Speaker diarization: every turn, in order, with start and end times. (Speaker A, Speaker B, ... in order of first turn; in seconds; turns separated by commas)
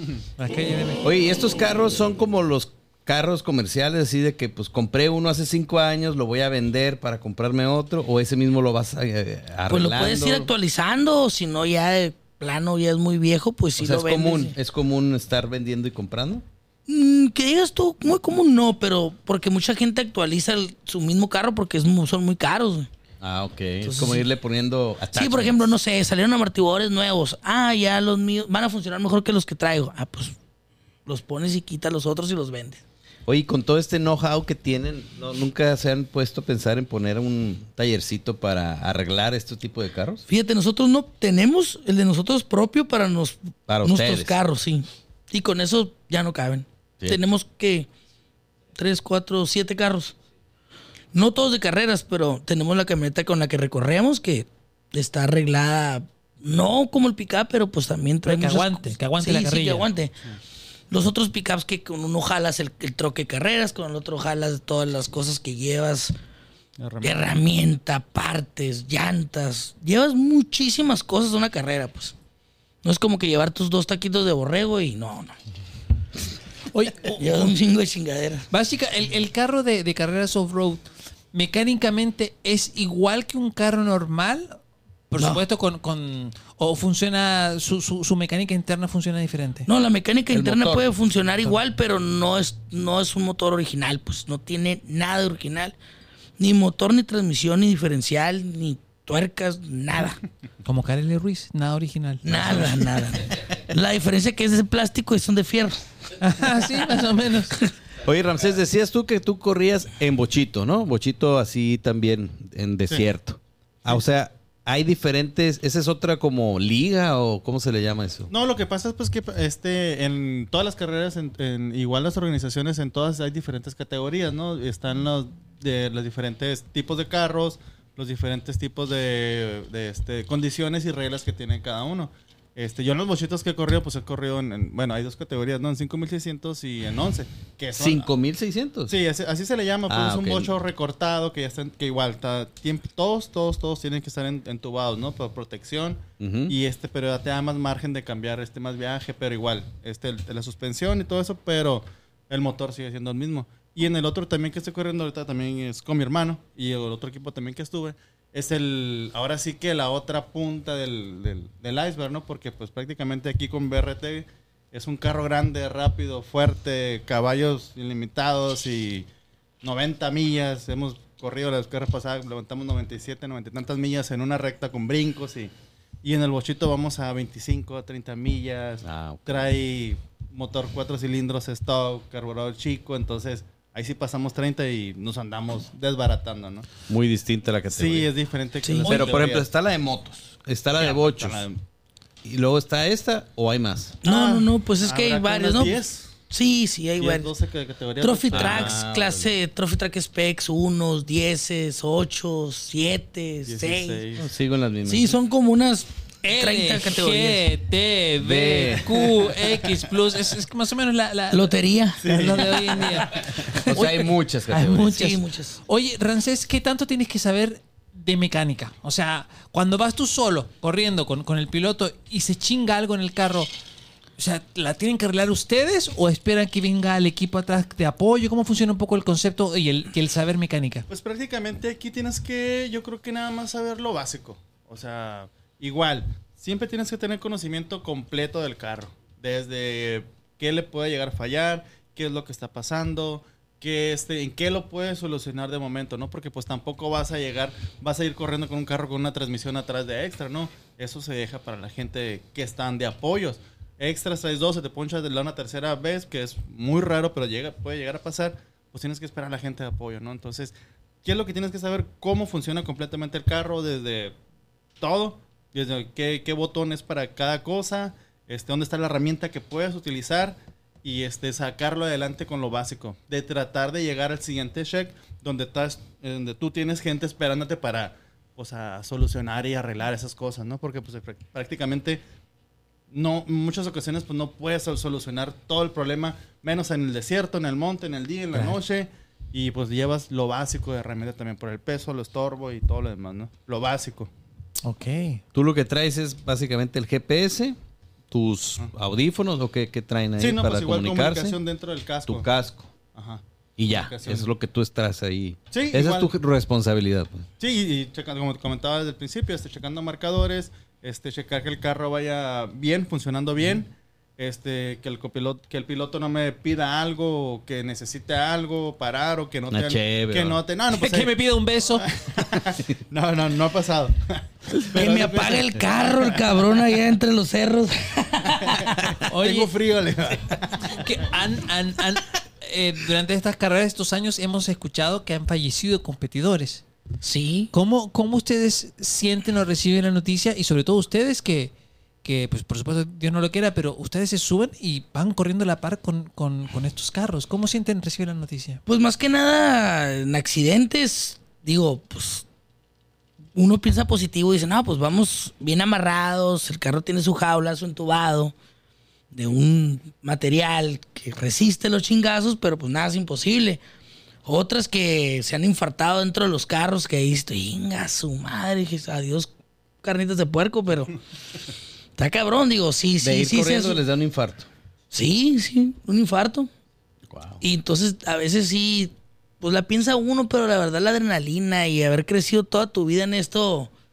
Speaker A: 0.4-1.0, Speaker B: 1.0-10.5, Speaker C: 9.7-14.6, Speaker B: 13.8-16.4, Speaker C: 16.9-22.9, Speaker B: 23.2-25.7, Speaker C: 23.8-24.2, Speaker C: 25.1-30.4, Speaker C: 31.1-32.8, Speaker B: 33.3-40.2, Speaker C: 40.3-47.9, Speaker B: 43.7-44.4, Speaker C: 48.8-50.1, Speaker C: 51.1-60.1, Speaker A: 58.2-59.9, Speaker C: 60.9-66.1, Speaker D: 66.8-67.3, Speaker C: 67.0-72.1, Speaker C: 72.8-75.3, Speaker A: 76.7-77.5, Speaker C: 77.0-78.5, Speaker A: 78.5-84.6, Speaker A: 85.1-89.7, Speaker C: 89.7-95.8, Speaker B: 90.3-90.9, Speaker C: 96.4-100.2, Speaker A: 100.6-102.8, Speaker C: 102.2-105.8, Speaker B: 102.3-102.6, Speaker A: 106.2-107.5, Speaker B: 108.0-118.3, Speaker D: 118.3-138.1, Speaker B: 137.8-138.9, Speaker D: 138.9-169.1, Speaker B: 139.9-140.5, Speaker B: 146.2-146.5, Speaker D: 169.6-186.7, Speaker B: 178.8-179.5, Speaker B: 186.9-188.1, Speaker D: 187.7-189.5, Speaker C: 188.6-189.1, Speaker B: 188.8-191.4, Speaker D: 190.7-191.6, Speaker B: 192.2-194.0, Speaker D: 194.0-196.1, Speaker C: 194.0-195.8, Speaker C: 196.3-197.3, Speaker D: 197.0-198.8, Speaker C: 198.0-204.0, Speaker B: 198.3-199.3, Speaker D: 203.5-204.3, Speaker B: 204.2-205.2, Speaker C: 204.9-207.4, Speaker A: 206.2-223.5, Speaker B: 208.2-209.3, Speaker C: 211.3-212.3, Speaker D: 212.0-213.1, Speaker B: 213.5-215.0, Speaker C: 214.9-215.6, Speaker A: 224.2-230.9, Speaker D: 230.9-264.1, Speaker D: 264.8-282.0, Speaker D: 282.9-294.1, Speaker A: 288.3-288.6, Speaker A: 294.6-295.2, Speaker B: 295.3-297.6, Speaker B: 298.1-301.4, Speaker D: 300.2-302.3, Speaker B: 302.1-302.7, Speaker D: 302.9-304.3, Speaker B: 303.6-307.3, Speaker D: 305.5-306.1, Speaker D: 307.4-321.1, Speaker B: 319.5-320.4, Speaker A: 320.7-321.9, Speaker D: 321.8-326.3, Speaker C: 324.5-328.7, Speaker D: 328.6-330.7, Speaker A: 329.0-329.5, Speaker A: 330.7-336.6, Speaker C: 337.0-337.5, Speaker A: 337.5-341.5, Speaker A: 342.0-348.6, Speaker C: 348.6-352.2, Speaker C: 353.4-358.3, Speaker C: 359.1-363.6, Speaker C: 364.2-369.3, Speaker C: 369.8-370.9, Speaker C: 372.0-373.8, Speaker B: 373.0-374.5, Speaker C: 374.9-376.5, Speaker B: 377.1-377.4, Speaker C: 377.4-383.7